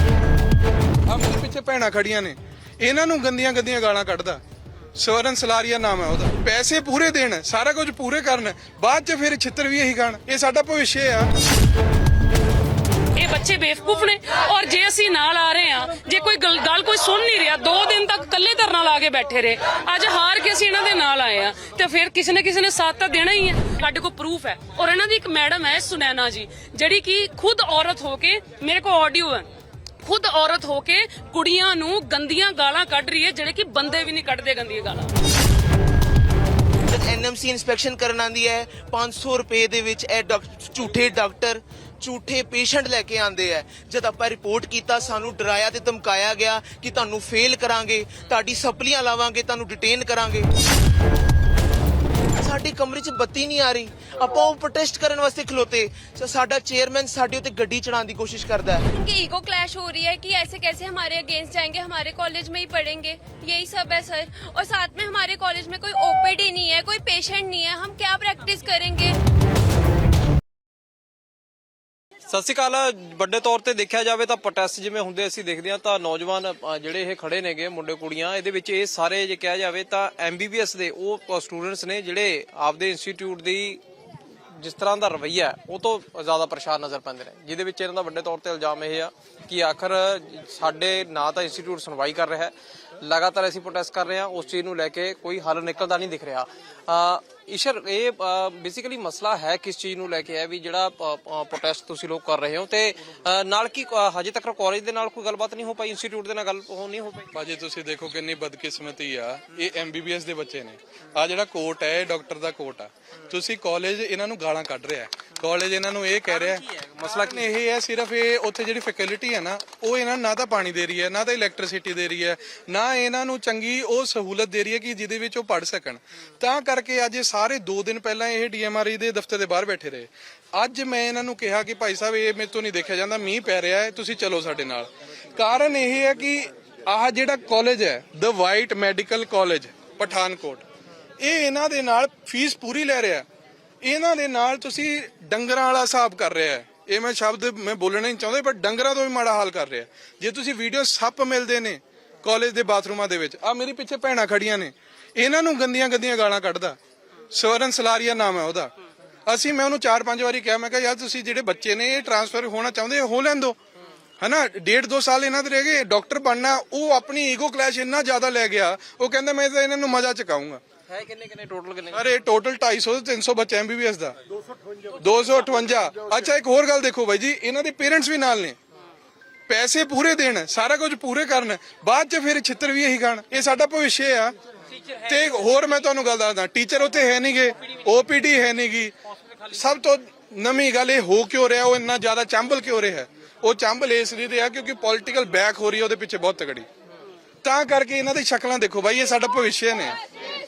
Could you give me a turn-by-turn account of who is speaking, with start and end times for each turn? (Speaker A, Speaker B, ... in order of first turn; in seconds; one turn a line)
Speaker A: 1.1-4.4
Speaker A: 5.0-11.3
Speaker B: 13.2-29.5
Speaker B: 30.0-35.1
Speaker C: 36.8-50.5
Speaker C: 52.4-58.9
Speaker D: 58.9-69.2
Speaker E: 72.3-83.8
Speaker E: 84.5-107.3
Speaker A: 107.3-140.6
Speaker E: 116.5-117.3
Speaker A: 141.2-143.2
Speaker A: 143.8-156.8
Speaker A: 157.3-158.7
Speaker A: 159.3-163.6
Speaker A: 164.2-170.6
Speaker E: 170.9-171.9
Speaker A: 171.9-174.2
Speaker A: 175.0-178.6
Speaker A: 179.5-184.3
Speaker A: 184.9-188.9
Speaker A: 189.5-196.7
Speaker A: 197.4-199.9